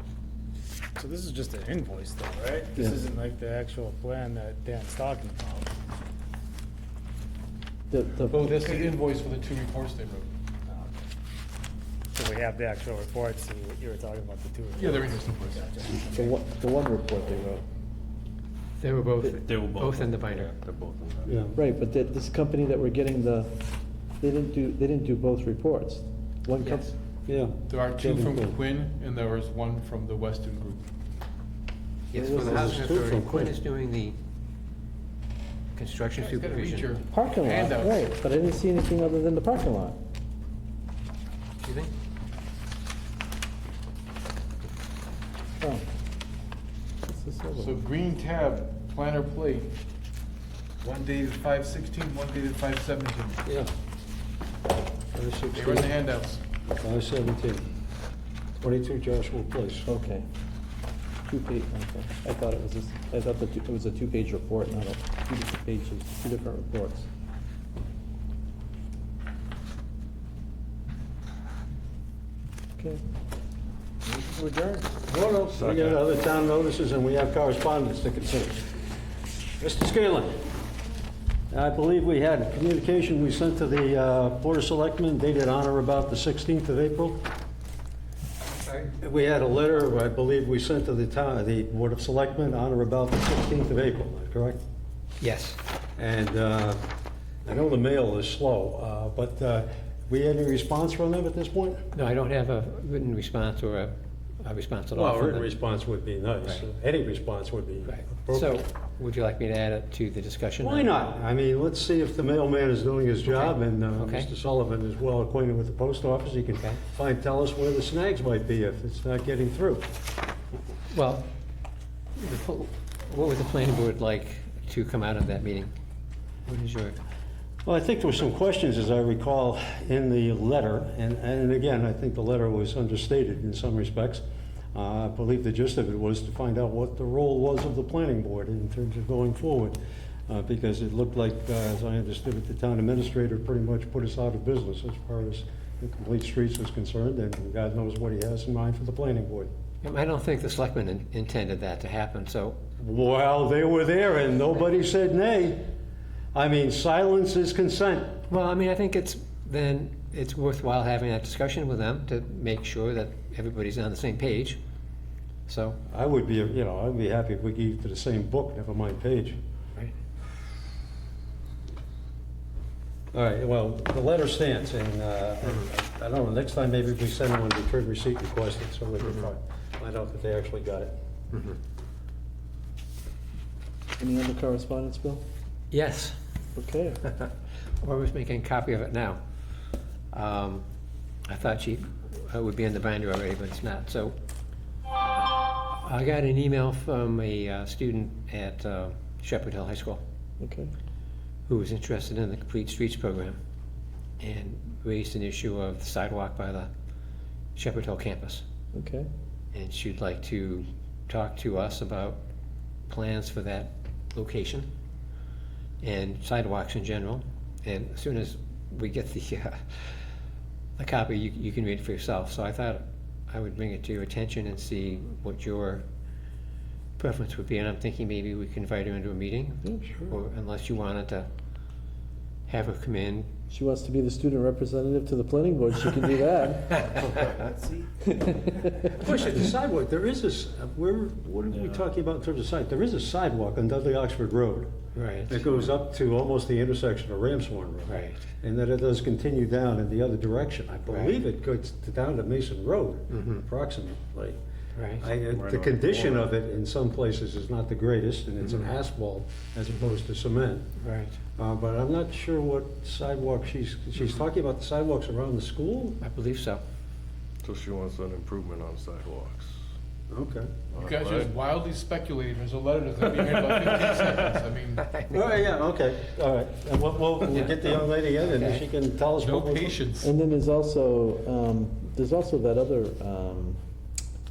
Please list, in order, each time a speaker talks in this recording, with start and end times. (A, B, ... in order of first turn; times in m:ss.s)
0:01.0-0:05.7 A
0:07.9-0:08.6 B
0:08.3-0:10.3 C
0:12.2-0:16.3 A
0:14.8-0:15.7 C
0:16.1-0:17.6 B
0:18.8-0:20.5 D
0:19.2-0:21.4 E
0:21.3-0:21.6 F
0:21.6-0:23.6 B
0:24.2-0:26.9 B
0:26.6-0:26.9 D
0:27.3-0:28.6 F
0:27.7-0:30.8 C
0:32.1-0:34.2 D
0:32.2-0:32.7 B
0:32.3-0:33.6 F
0:35.8-0:37.0 D
0:36.2-0:38.1 C
0:37.1-0:40.0 B
0:41.6-0:41.9 D
0:47.0-0:47.8 B
0:47.6-0:49.7 C
0:50.8-0:53.4 C
0:53.5-0:53.7 F
0:55.1-0:55.9 F
0:55.5-0:56.4 C
0:56.8-0:57.7 F
0:58.6-0:59.9 F
0:59.9-1:00.3 B
1:01.2-1:07.1 B
1:14.1-1:14.9 A
1:15.1-1:18.8 F
1:15.5-1:16.0 E
1:19.6-1:20.5 F
1:21.5-1:27.2 F
1:28.6-1:28.9 D
1:29.0-1:34.6 F
1:35.2-1:35.6 D
1:36.0-1:36.8 F
1:37.5-1:41.8 F
1:41.9-1:45.5 D
1:44.9-1:48.6 F
1:47.8-1:50.9 D
1:50.6-1:59.9 F
1:53.2-1:54.3 D
2:00.9-2:01.3 D
2:02.2-2:05.7 D
2:06.5-2:07.0 D
2:07.6-2:14.2 F
2:14.7-2:29.5 F
2:29.8-2:32.6 D
2:32.8-2:35.7 F
2:36.3-2:38.2 F
2:38.3-2:44.6 D
2:45.5-2:45.8 D
2:45.9-2:49.4 F
2:53.1-3:00.9 F
3:01.3-3:01.6 D
3:04.0-3:05.2 B
3:05.7-3:06.2 D
3:06.6-3:07.0 B
3:07.8-3:09.2 D
3:10.1-3:10.6 D
3:11.3-3:14.1 D
3:15.2-3:20.0 D
3:20.4-3:20.7 B
3:21.5-3:23.4 D
3:24.2-3:26.7 D
3:27.6-3:28.4 D
3:28.7-3:29.1 B
3:29.5-3:32.2 D
3:32.9-3:34.7 D
3:35.8-3:40.0 D
3:40.8-3:45.8 D
3:47.0-3:51.3 D
3:49.6-3:49.9 B
3:52.5-3:53.3 D
3:53.5-3:56.8 B
3:58.1-3:58.9 B
3:59.0-3:59.5 D
3:59.0-4:04.7 F
4:05.0-4:05.4 D
4:05.3-4:14.4 F
4:05.4-4:05.7 E
4:07.9-4:08.2 D
4:10.9-4:11.2 D
4:13.1-4:13.4 D
4:14.8-4:15.0 D
4:15.0-4:20.7 F
4:15.2-4:16.3 E
4:18.4-4:18.7 D
4:20.8-4:21.2 D
4:21.4-4:26.0 F
4:26.0-4:26.6 D
4:27.4-4:29.6 E
4:30.1-4:30.5 F
4:30.7-4:31.3 E
4:30.8-4:34.9 C
4:33.8-4:34.2 E
4:34.8-4:35.3 D
4:35.1-4:39.8 F
4:37.2-4:38.7 D
4:39.2-4:40.1 C
4:40.0-4:43.6 B